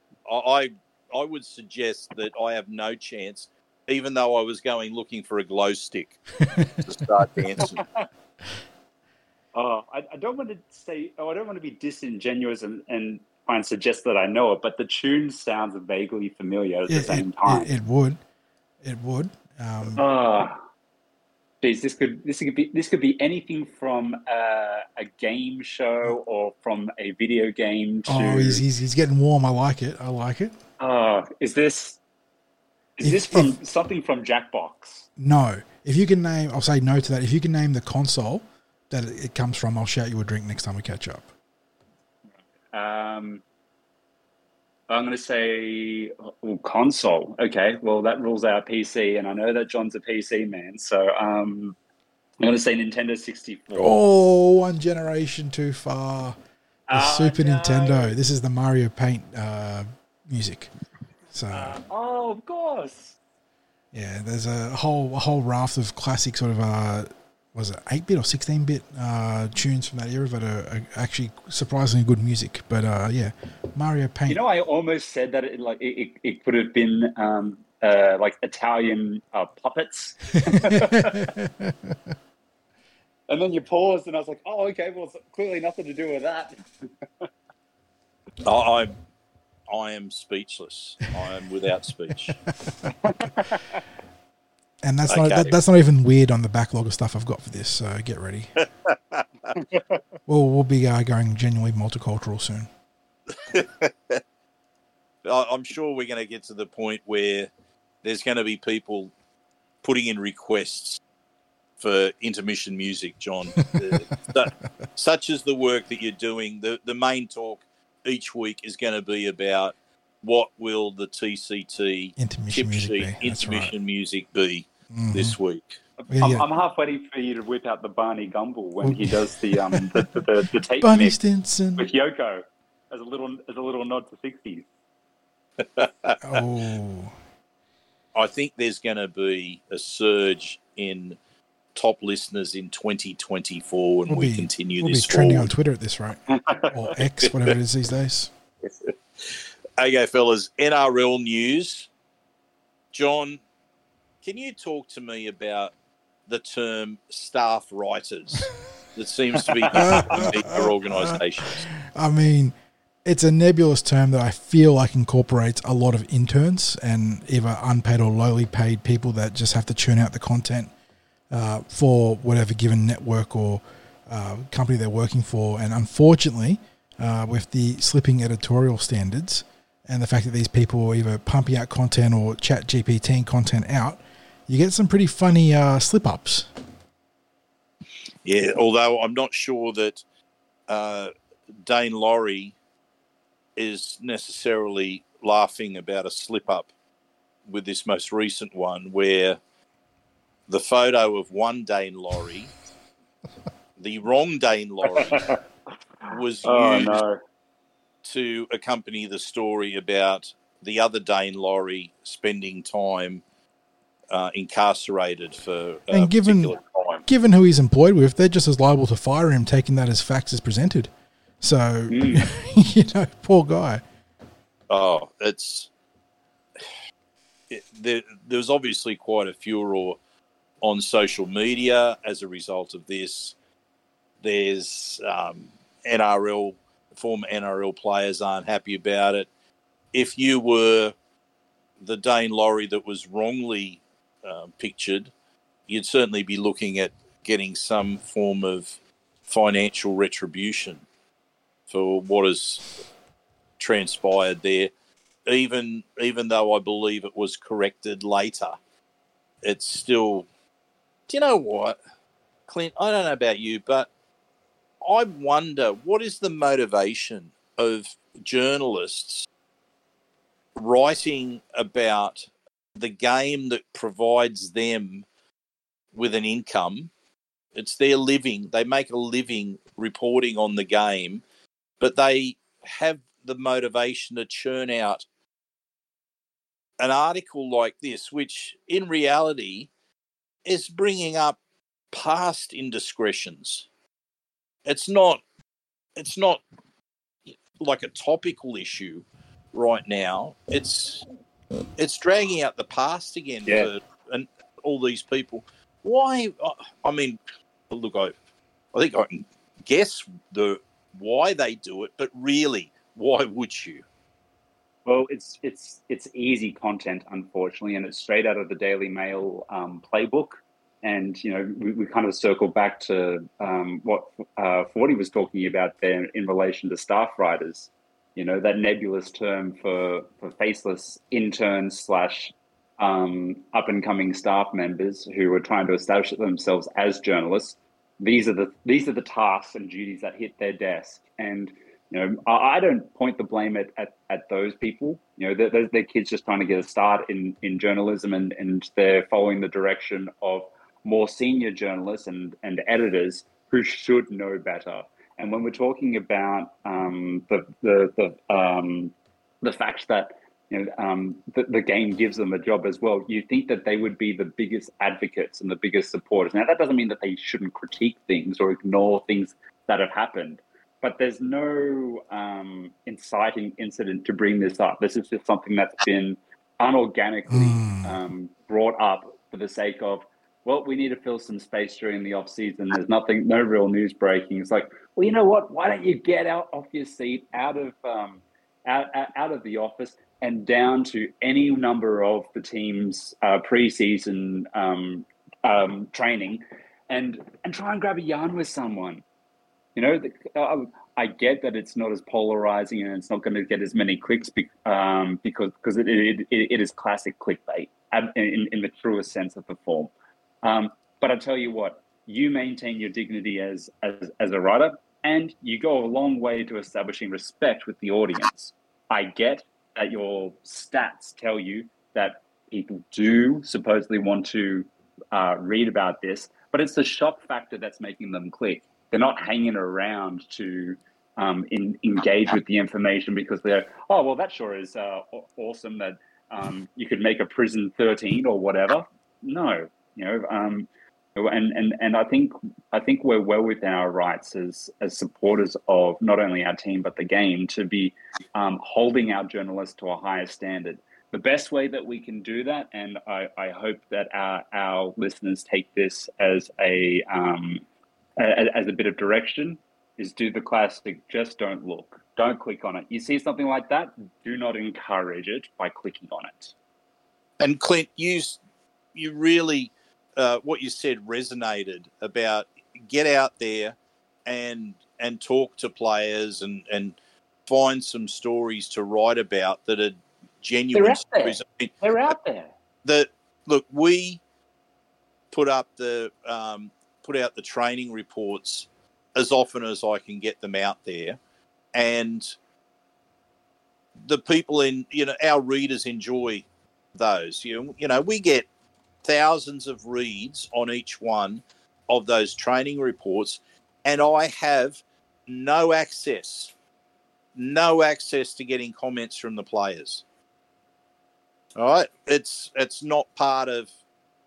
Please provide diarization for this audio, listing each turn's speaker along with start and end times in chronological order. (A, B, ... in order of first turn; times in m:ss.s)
0:00.3-0:07.8 A
0:06.5-0:06.8 B
0:09.6-0:17.7 C
0:16.9-0:18.2 B
0:18.8-0:20.0 B
0:20.0-0:20.6 C
0:21.6-0:28.6 C
0:28.1-0:30.5 B
0:30.8-0:32.0 C
0:33.0-0:35.1 C
0:33.0-0:33.6 B
0:35.2-0:41.3 B
0:42.7-0:43.4 C
0:44.9-0:51.8 C
0:52.4-0:54.0 C
0:53.8-0:56.4 B
0:56.9-0:58.2 C
0:56.9-1:00.7 B
1:01.3-1:01.8 B
1:01.5-1:03.2 C
1:03.9-1:14.4 B
1:14.3-1:21.3 C
1:20.5-1:22.0 B
1:23.3-1:27.3 C
1:28.4-1:28.9 A
1:29.7-1:32.4 A
1:32.6-1:32.9 B
1:33.0-1:33.8 C
1:34.8-1:38.5 B
1:35.1-1:35.5 A
1:38.6-1:39.6 A
1:40.3-1:42.7 B
1:43.4-1:44.2 A
1:45.2-1:47.5 A
1:48.0-1:49.1 A
1:49.8-1:51.0 A
1:51.8-2:05.8 A
1:53.6-1:54.0 B
2:02.2-2:03.7 B
2:04.9-2:05.4 B
2:06.1-2:06.5 B
2:06.2-2:11.2 C
2:08.8-2:10.1 B
2:10.8-2:11.8 B
2:11.8-2:14.7 C
2:15.6-2:16.2 A
2:16.2-2:17.2 B
2:18.2-2:21.2 A
2:21.8-2:25.5 A
2:24.1-2:28.3 B
2:26.3-2:26.7 C
2:28.6-2:31.9 A
2:32.9-2:33.4 A
2:34.2-2:35.7 A
2:36.3-2:41.7 A
2:39.7-2:42.5 B
2:43.0-2:50.7 B
2:51.3-3:06.5 B
3:08.2-3:10.0 A
3:10.7-3:11.1 A
3:11.6-3:12.6 A
3:13.6-3:16.7 A
3:17.5-3:19.4 A
3:20.5-3:22.5 A
3:23.8-3:25.3 A
3:25.1-3:25.4 C
3:26.1-3:27.0 A
3:26.4-3:27.2 C
3:28.0-3:33.2 A
3:34.1-3:37.0 A
3:35.9-3:36.5 B
3:37.1-3:43.8 B
3:41.9-3:42.2 C
3:44.7-3:45.7 A
3:47.5-3:50.0 A
3:50.6-3:53.4 A
3:54.2-3:59.3 A
3:59.9-4:01.0 A
4:01.8-4:05.1 A
4:05.7-4:10.8 A
4:11.7-4:12.7 A
4:13.6-4:14.7 A
4:15.3-4:18.6 A
4:19.4-4:20.3 A
4:21.1-4:21.8 A
4:22.5-4:23.9 A
4:24.8-4:29.3 A
4:30.6-4:35.1 A
4:35.9-4:36.9 A
4:37.6-4:41.2 A
4:41.8-4:45.1 A
4:46.8-4:49.7 A
4:50.4-4:51.4 A
4:51.9-4:53.7 A
4:54.6-4:55.2 A
4:56.0-4:56.4 A
4:57.3-5:01.1 A
5:01.8-5:08.2 A
5:08.7-5:13.8 A
5:14.9-6:39.0 C
6:17.3-6:18.0 B
6:39.8-6:49.9 C
6:50.4-7:37.6 C
7:38.2-7:46.5 C
7:47.4-7:48.4 A
7:49.0-8:01.7 A
8:00.7-8:02.5 C
8:02.8-8:04.2 A
8:05.3-8:11.2 A
8:11.7-8:12.4 A
8:14.0-8:18.5 A
8:19.0-8:26.5 A
8:27.4-8:30.0 A
8:31.6-8:33.7 A